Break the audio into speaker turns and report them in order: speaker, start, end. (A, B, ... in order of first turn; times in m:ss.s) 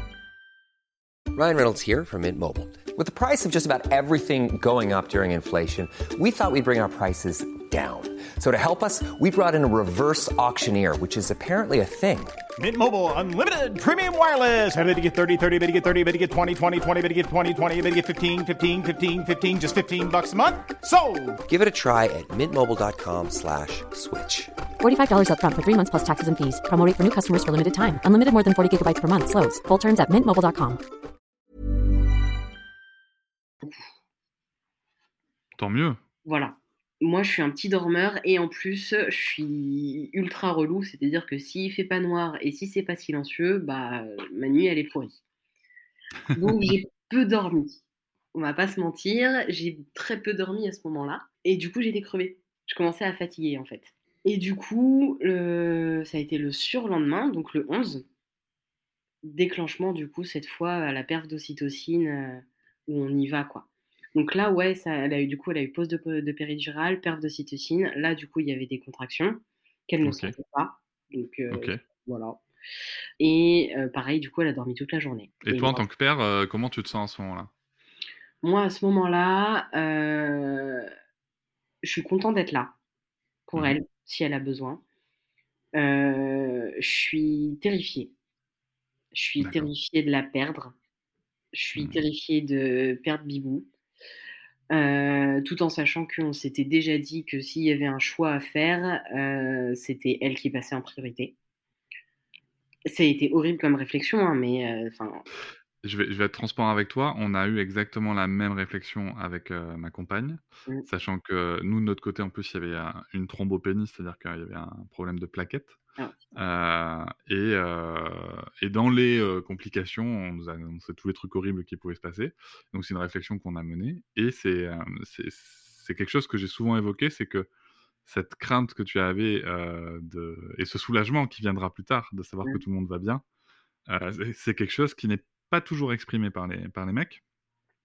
0:01.3-0:12.4 A
0:12.6-0:21.4 B
0:21.5-0:24.5 A
0:24.8-0:30.8 C
0:33.6-0:33.9 D
0:35.6-0:36.0 E
0:36.2-0:45.2 D
0:46.3-0:47.8 D
0:48.3-0:58.0 D
0:59.2-1:12.4 D
1:10.0-1:10.4 E
1:11.5-1:11.8 E
1:13.2-1:15.8 D
1:15.4-1:17.5 E
1:18.4-1:20.9 D
1:21.8-1:22.7 D
1:23.5-1:24.8 D
1:25.7-1:28.1 D
1:29.1-1:30.7 D
1:29.4-1:29.7 E
1:31.5-1:33.7 D
1:34.7-1:41.3 D
1:42.9-1:45.2 D
1:45.8-1:55.8 E
1:56.3-2:07.5 E
2:08.0-2:13.2 E
2:13.9-2:17.2 E